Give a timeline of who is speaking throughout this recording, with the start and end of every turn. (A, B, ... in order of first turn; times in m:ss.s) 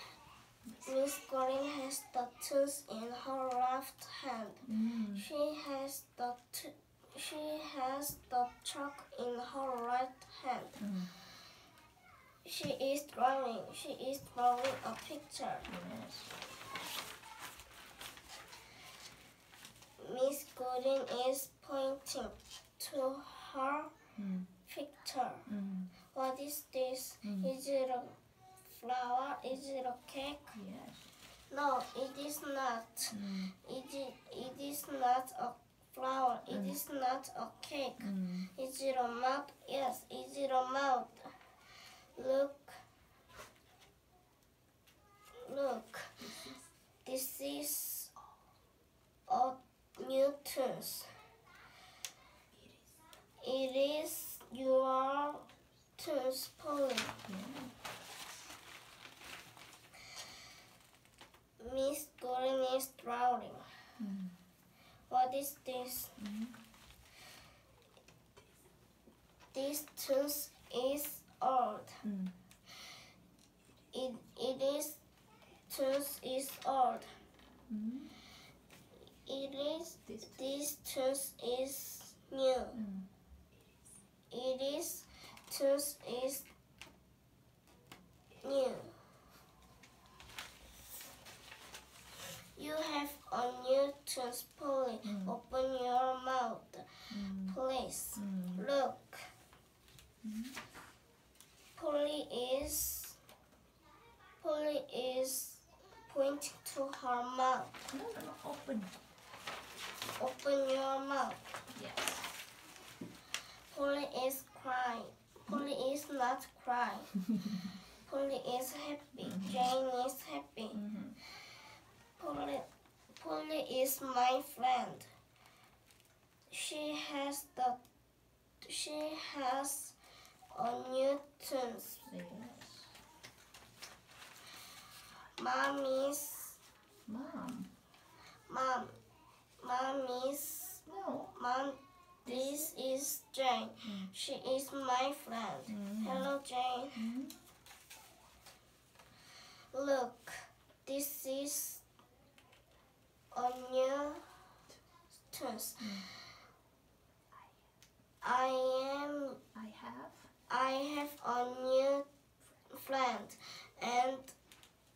0:00.8-0:10.8 A
0:04.7-0:05.2 B
0:10.8-0:11.1 B
0:12.4-0:15.7 A
0:15.6-0:16.3 B
0:20.0-0:23.9 A
0:24.2-0:24.5 B
0:24.6-0:25.5 A
0:25.5-0:25.9 B
0:26.1-0:30.6 A
0:27.2-0:27.5 B
0:30.5-0:31.1 B
0:31.5-0:41.3 A
0:33.1-0:33.5 B
0:38.0-0:38.5 B
0:42.2-0:42.8 A
0:45.4-0:46.2 A
0:46.2-0:46.6 B
0:47.0-0:48.1 A
0:49.3-0:51.1 A
0:53.4-0:57.2 A
0:57.3-0:57.7 B
1:01.6-1:03.7 A
1:04.0-1:04.3 B
1:05.1-1:06.2 A
1:06.2-1:06.5 B
1:09.5-1:12.0 A
1:12.0-1:12.3 B
1:13.9-1:15.0 A
1:15.7-1:17.1 A
1:17.7-1:18.1 B
1:19.2-1:22.8 A
1:20.1-1:20.4 B
1:22.8-1:23.1 B
1:24.3-1:26.5 A
1:28.4-1:29.0 A
1:32.6-1:39.3 A
1:35.0-1:35.3 B
1:37.1-1:37.6 B
1:38.2-1:38.6 B
1:40.2-1:40.6 B
1:41.8-1:43.2 A
1:44.4-1:47.8 A
1:47.9-1:49.0 B
1:50.2-1:51.6 A
1:51.7-1:52.3 B
1:53.7-1:57.2 A
1:58.0-2:00.8 A
1:59.2-1:59.7 B
2:00.7-2:01.2 B
2:02.2-2:05.1 A
2:06.5-2:07.8 A
2:08.6-2:10.0 A
2:10.5-2:12.0 A
2:12.1-2:12.9 B
2:15.4-2:16.6 A
2:17.1-2:17.7 B
2:18.5-2:19.0 A
2:19.6-2:27.1 A
2:20.8-2:21.3 B
2:22.2-2:22.7 B
2:23.8-2:24.1 B
2:25.7-2:26.3 B
2:26.9-2:27.4 B
2:29.7-2:31.8 A
2:33.3-2:34.2 A
2:35.3-2:36.0 A
2:35.8-2:36.1 B
2:38.2-2:39.4 A
2:39.5-2:40.3 B
2:40.5-2:42.1 A
2:42.7-2:44.3 A